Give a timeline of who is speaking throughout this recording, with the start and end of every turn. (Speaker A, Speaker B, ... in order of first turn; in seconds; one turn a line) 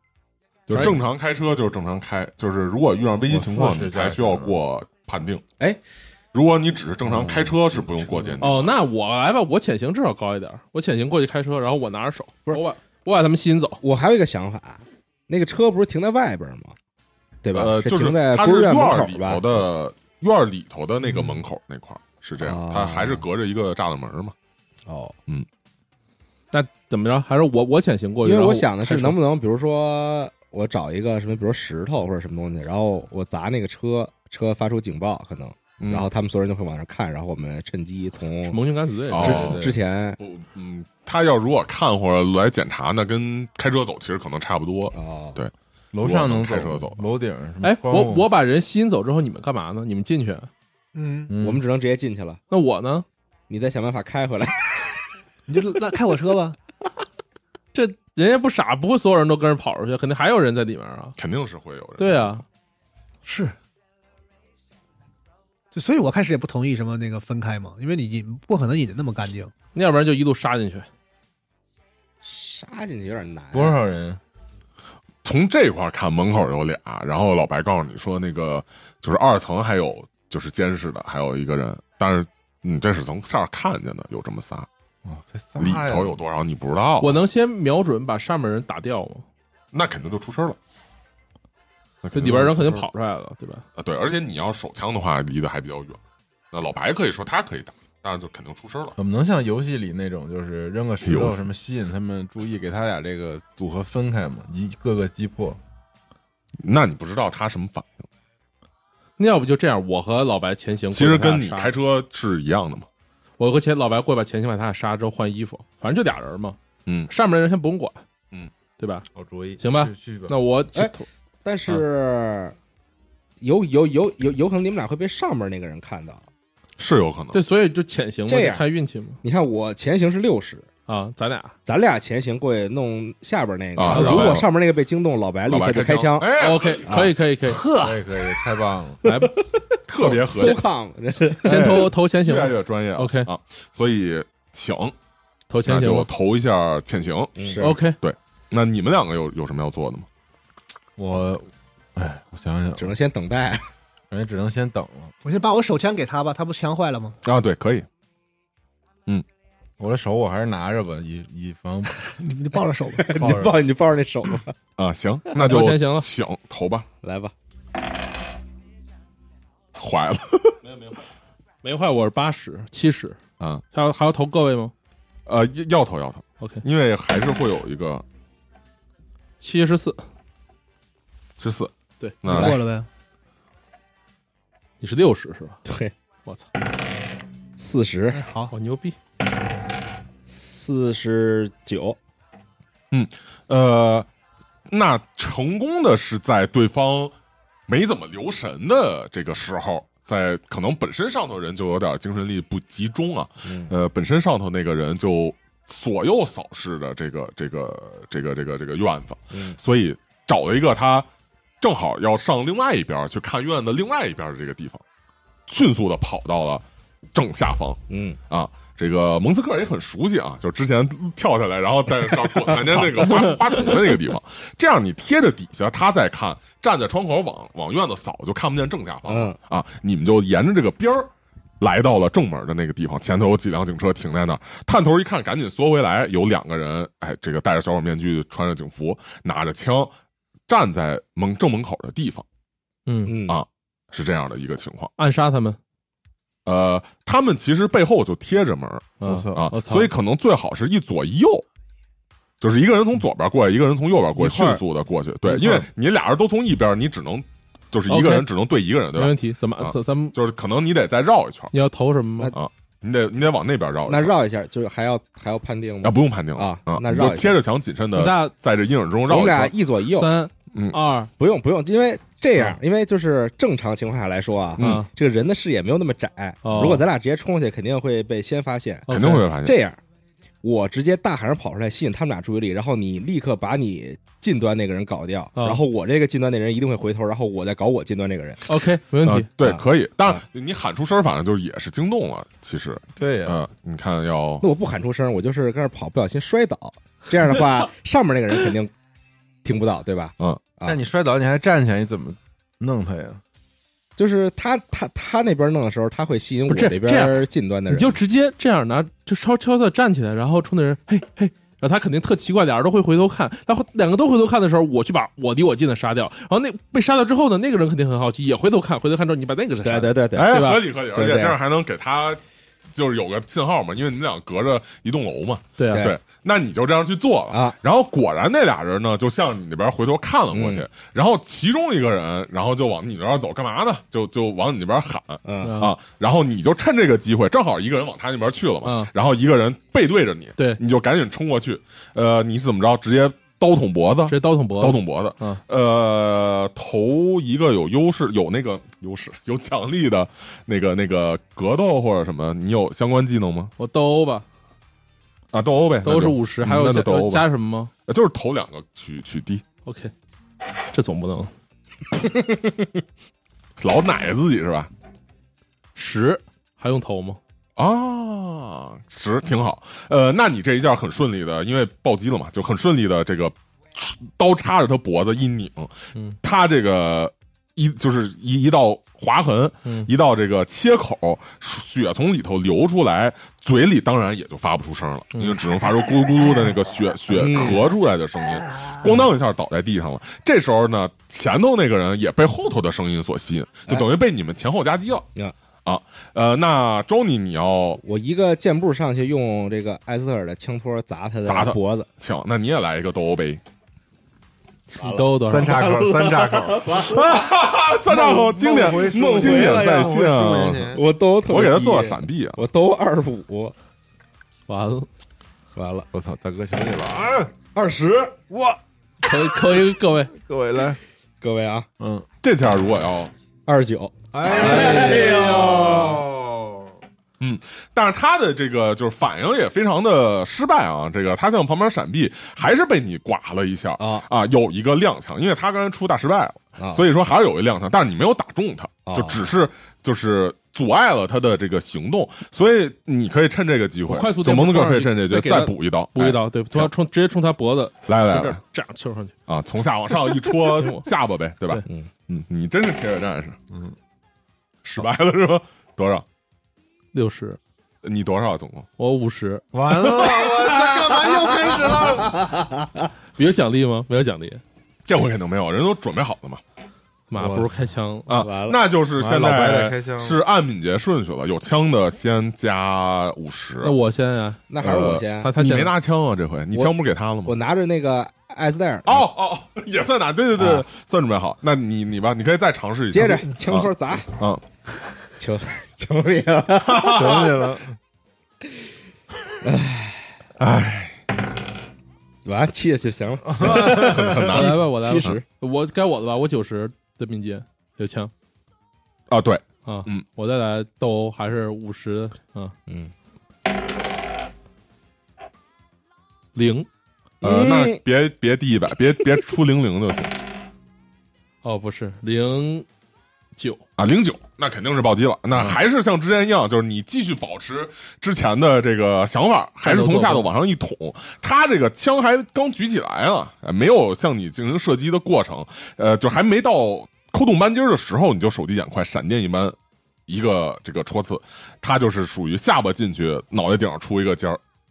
Speaker A: 0.7-5.4
Speaker B: 0.7-1.0
Speaker C: 3.3-4.6
Speaker A: 6.3-8.7
Speaker D: 7.0-7.5
Speaker C: 7.1-8.4
Speaker B: 8.4-13.8
Speaker D: 13.8-16.8
Speaker D: 17.4-19.7
Speaker A: 17.5-24.4
Speaker D: 22.4-23.2
Speaker D: 24.9-25.2
Speaker B: 26.5-29.2
Speaker D: 28.2-38.6
Speaker A: 35.8-36.1
Speaker B: 38.4-39.6
Speaker A: 39.1-47.1
Speaker D: 39.1-40.2
Speaker C: 39.2-39.7
Speaker D: 44.9-45.4
Speaker C: 45.9-48.3
Speaker B: 47.6-50.5
Speaker E: 51.0-51.3
Speaker C: 51.3-51.6
Speaker D: 51.4-52.4
Speaker B: 52.5-53.1
Speaker D: 53.5-54.9
Speaker E: 55.5-56.6
Speaker B: 57.7-61.2
Speaker A: 61.2-62.4
Speaker B: 62.0-62.4
Speaker E: 63.2-63.5
Speaker E: 65.7-69.5
Speaker B: 69.7-70.9
Speaker D: 72.2-73.8
Speaker C: 73.5-74.2
Speaker A: 75.2-84.7
Speaker C: 85.0-86.2
Speaker A: 85.6-87.2
Speaker B: 87.0-89.2
Speaker A: 89.7-90.6
Speaker A: 92.0-92.8
Speaker B: 92.1-93.7
Speaker C: 92.2-92.7
Speaker A: 93.8-96.0
Speaker A: 96.5-99.0
Speaker C: 99.0-105.6
Speaker A: 101.0-101.4
Speaker A: 106.6-108.1
Speaker B: 109.2-111.7
Speaker A: 110.9-112.9
Speaker B: 113.4-116.6
Speaker A: 116.9-117.1
Speaker B: 117.1-118.0
Speaker B: 118.8-119.1
Speaker C: 119.2-120.3
Speaker B: 119.6-121.1
Speaker D: 121.5-122.6
Speaker D: 123.4-126.3
Speaker A: 126.8-127.4
Speaker B: 127.3-129.2
Speaker D: 128.3-128.7
Speaker D: 129.2-130.7
Speaker B: 130.9-131.6
Speaker D: 131.7-137.2
Speaker A: 133.8-134.5
Speaker B: 133.8-134.5
Speaker A: 135.5-137.1
Speaker B: 136.4-137.7
Speaker E: 137.5-138.0
Speaker C: 137.8-139.0
Speaker B: 139.0-139.4
Speaker D: 139.2-141.9
Speaker A: 139.9-140.6
Speaker B: 141.4-143.3
Speaker A: 141.5-144.9
Speaker B: 145.5-146.1
Speaker A: 145.7-150.1
Speaker D: 147.4-147.8
Speaker B: 147.6-148.0
Speaker C: 151.0-152.9
Speaker D: 152.8-153.7
Speaker C: 154.1-155.1
Speaker E: 155.2-157.2
Speaker A: 157.2-157.9
Speaker C: 159.8-162.1
Speaker E: 162.0-163.5
Speaker D: 162.9-164.6
Speaker C: 163.2-163.6
Speaker A: 164.8-166.9
Speaker B: 165.3-166.1
Speaker D: 167.0-167.3
Speaker A: 169.8-170.6
Speaker B: 170.6-171.1
Speaker B: 171.6-173.2
Speaker B: 173.7-174.7
Speaker A: 175.3-178.0
Speaker B: 179.4-180.0
Speaker A: 181.4-181.7
Speaker A: 182.2-182.6
Speaker E: 182.3-182.9
Speaker D: 182.3-182.6
Speaker B: 184.8-185.6
Speaker D: 185.7-185.9
Speaker D: 187.6-188.2
Speaker E: 188.1-188.5
Speaker B: 188.5-189.0
Speaker D: 190.3-192.0
Speaker A: 192.9-194.1
Speaker A: 194.7-197.1
Speaker A: 197.7-211.1
Speaker D: 203.4-203.7
Speaker D: 209.3-209.6
Speaker A: 211.6-214.8
Speaker A: 215.5-239.9
Speaker D: 217.9-218.2
Speaker D: 222.5-223.0
Speaker D: 229.1-229.4
Speaker A: 240.5-242.2
Speaker B: 242.9-243.2
Speaker D: 243.1-243.4
Speaker A: 243.3-244.9
Speaker B: 245.0-245.6
Speaker A: 246.4-251.5
Speaker B: 249.0-249.9
Speaker C: 249.0-249.5
Speaker A: 252.4-261.5
Speaker C: 254.2-254.6
Speaker D: 255.3-255.7
Speaker B: 257.9-258.3
Speaker B: 258.9-260.2
Speaker B: 261.5-262.3
Speaker A: 262.3-264.1
Speaker D: 263.9-267.4
Speaker A: 265.8-269.5
Speaker B: 267.9-268.4
Speaker D: 269.1-270.1
Speaker B: 269.9-271.1
Speaker A: 270.5-270.8
Speaker D: 271.2-279.8
Speaker A: 274.6-274.8
Speaker B: 274.6-274.9
Speaker B: 276.4-276.9
Speaker B: 278.9-279.3
Speaker A: 278.9-279.6
Speaker D: 280.4-288.4
Speaker B: 285.4-285.6
Speaker B: 288.5-289.3
Speaker A: 289.0-294.5
Speaker D: 289.4-290.2
Speaker C: 293.0-293.4
Speaker D: 294.4-298.7
Speaker D: 299.4-300.8
Speaker C: 300.6-303.2
Speaker D: 304.0-308.0
Speaker B: 306.5-320.7
Speaker D: 319.6-321.4
Speaker A: 320.1-322.2
Speaker A: 322.7-353.5
Speaker B: 325.6-325.9
Speaker D: 325.7-326.0
Speaker D: 327.3-327.6
Speaker D: 330.3-330.7
Speaker D: 335.2-335.6
Speaker B: 335.4-335.8
Speaker B: 338.6-338.9
Speaker B: 344.1-345.4
Speaker B: 353.6-354.3
Speaker A: 355.3-357.3
Speaker B: 355.8-357.7
Speaker A: 357.9-359.4
Speaker B: 359.7-359.9
Speaker B: 360.7-361.3
Speaker A: 363.6-364.7
Speaker B: 365.8-367.2
Speaker A: 367.6-395.1
Speaker B: 385.1-385.4
Speaker D: 387.1-387.6
Speaker A: 395.6-397.8
Speaker D: 397.8-401.9
Speaker A: 401.2-403.4
Speaker D: 404.7-407.2
Speaker B: 404.8-405.9
Speaker C: 405.2-406.9
Speaker A: 406.8-410.7
Speaker C: 407.9-410.8
Speaker D: 407.9-410.0
Speaker D: 410.7-413.6
Speaker A: 411.3-412.4
Speaker B: 414.5-414.9
Speaker D: 415.6-415.9
Speaker C: 415.9-417.3
Speaker D: 417.5-418.2
Speaker C: 418.3-418.6
Speaker B: 419.0-420.1
Speaker C: 420.2-420.8
Speaker D: 421.2-421.7
Speaker C: 421.8-422.1
Speaker A: 422.2-423.1
Speaker D: 423.5-426.0
Speaker C: 424.1-426.8
Speaker B: 424.3-425.4
Speaker A: 427.2-446.7
Speaker D: 433.8-434.1
Speaker D: 436.6-436.8
Speaker D: 438.9-439.2
Speaker B: 443.9-449.1
Speaker A: 447.9-448.4
Speaker A: 449.3-453.4
Speaker B: 450.1-450.9
Speaker A: 454.6-456.1
Speaker B: 456.9-457.4
Speaker A: 457.8-458.7
Speaker B: 458.8-459.4
Speaker C: 459.5-462.3
Speaker D: 460.4-462.9
Speaker B: 463.2-464.4
Speaker A: 464.9-466.4
Speaker B: 467.1-468.1
Speaker D: 467.1-467.6
Speaker A: 468.1-473.8
Speaker D: 468.1-468.6
Speaker C: 468.9-470.2
Speaker B: 473.6-474.4
Speaker D: 474.5-475.3
Speaker A: 474.6-477.4
Speaker B: 475.2-475.7
Speaker D: 477.2-479.1
Speaker A: 478.9-484.4
Speaker D: 480.4-480.6
Speaker D: 482.9-484.1
Speaker D: 485.2-487.3
Speaker A: 486.6-487.3
Speaker C: 486.9-487.8
Speaker D: 489.4-490.2
Speaker A: 490.4-491.0
Speaker D: 492.2-495.2
Speaker C: 493.3-494.3
Speaker A: 493.5-495.2
Speaker B: 494.3-498.1
Speaker A: 499.1-500.1
Speaker B: 499.6-502.6
Speaker D: 502.7-502.9
Speaker B: 506.4-506.7
Speaker D: 507.2-507.8
Speaker A: 507.2-510.1
Speaker B: 511.4-512.7
Speaker B: 513.4-513.6
Speaker A: 513.8-529.6
Speaker B: 519.6-520.3
Speaker A: 530.1-534.4